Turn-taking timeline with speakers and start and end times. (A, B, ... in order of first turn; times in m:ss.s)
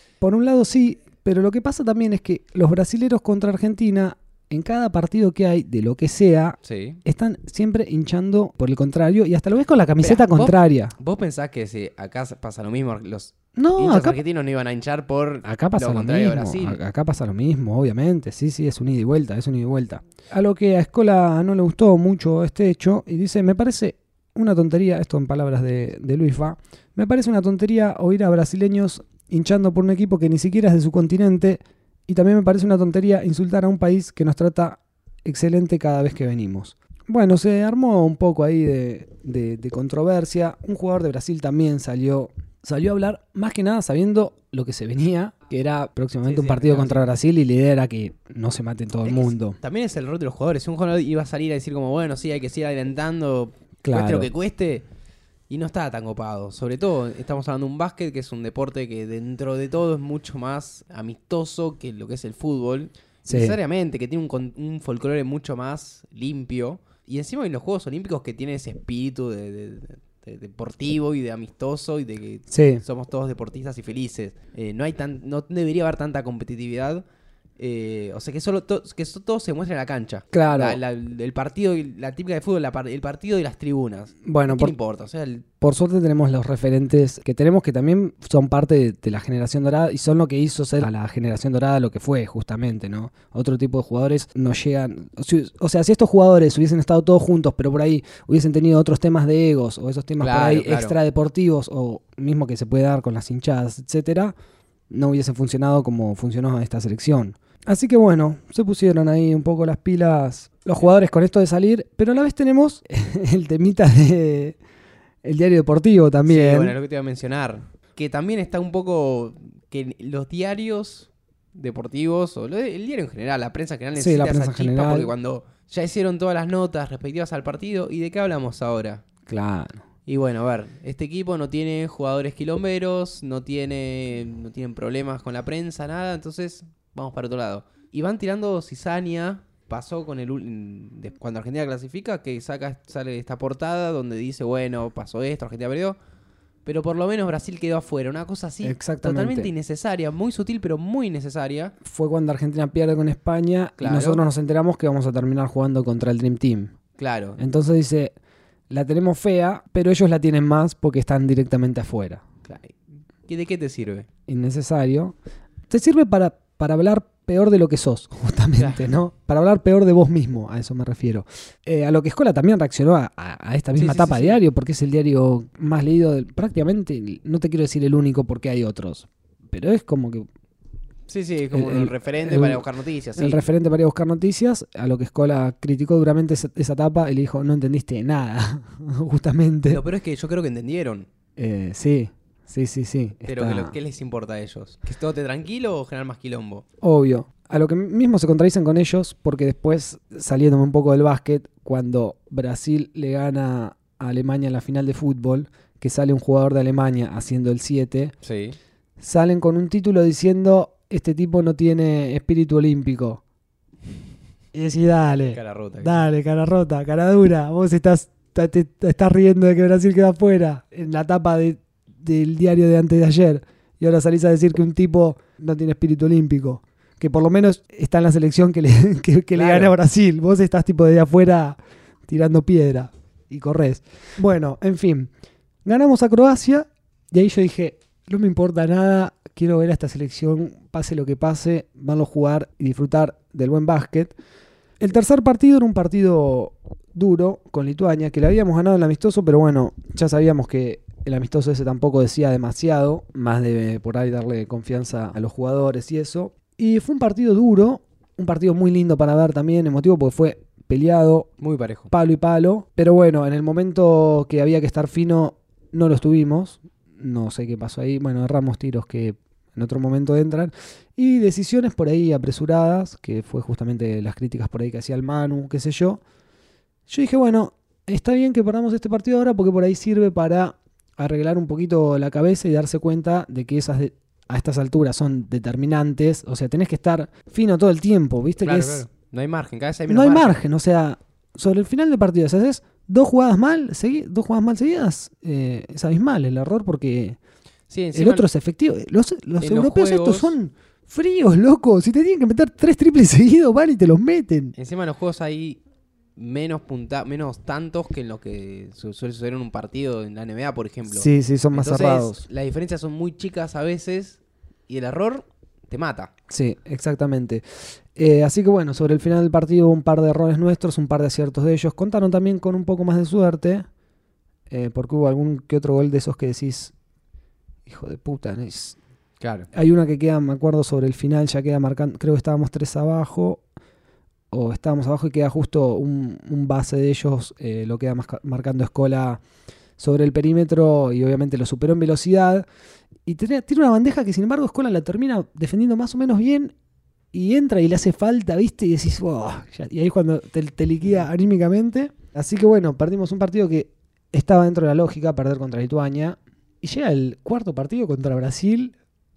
0:00.2-0:10.9 A
0:06.6-0:07.0 B
0:10.0-0:16.8 B
0:13.6-0:14.2 A
0:15.4-0:49.6 A
0:46.2-0:47.1 B
0:49.0-0:54.9 B
0:53.8-0:54.3 A
0:55.5-1:17.0 B
1:03.3-1:03.6 A
1:12.5-1:12.8 A
1:17.6-1:25.5 B
1:20.3-1:20.8 A
1:24.2-1:24.8 A
1:25.6-1:44.4 A
1:40.2-1:41.0 B
1:44.9-1:54.6 A
1:55.2-1:56.8 A
1:56.3-2:09.0 B
2:04.0-2:05.1 A
2:09.3-2:09.8 A
2:10.1-2:26.0 B
2:26.6-2:31.7 B
2:28.6-2:29.5 A
2:31.8-2:36.7 A
2:33.8-2:34.2 B
2:37.0-2:37.4 B
2:37.4-2:38.1 A
2:38.7-2:42.2 A
2:42.4-2:44.1 B
2:44.3-2:45.2 A
2:45.7-3:00.3 A
2:53.8-2:54.4 B
3:01.1-3:03.5 B
3:01.5-3:02.6 A
3:03.2-3:09.8 A
3:09.7-3:11.1 B
3:11.4-3:13.8 A
3:13.3-3:16.6 B
3:16.8-3:28.1 A
3:28.2-3:28.6 B
3:29.0-3:33.2 A
3:34.5-3:55.1 A
3:35.3-3:36.1 B
3:49.3-3:49.7 B
3:55.6-4:04.1 A
4:04.8-4:21.3 A
4:21.4-4:21.9 B
4:21.9-4:36.0 A
4:36.9-4:48.9 A
4:48.4-4:50.4 B
4:49.9-4:57.2 A
4:57.7-4:58.2 B
4:57.9-5:04.5 A
4:59.4-5:00.4 B
5:04.6-5:05.6 B
5:06.2-5:16.1 B
5:10.9-5:12.2 A
5:16.3-5:23.7 A
5:24.5-5:26.7 A
5:27.7-5:28.8 A
5:29.2-5:29.5 B
5:29.5-5:33.4 A
5:34.3-5:39.2 A
5:39.8-5:42.5 A
5:43.1-5:46.5 A
5:47.1-5:58.8 A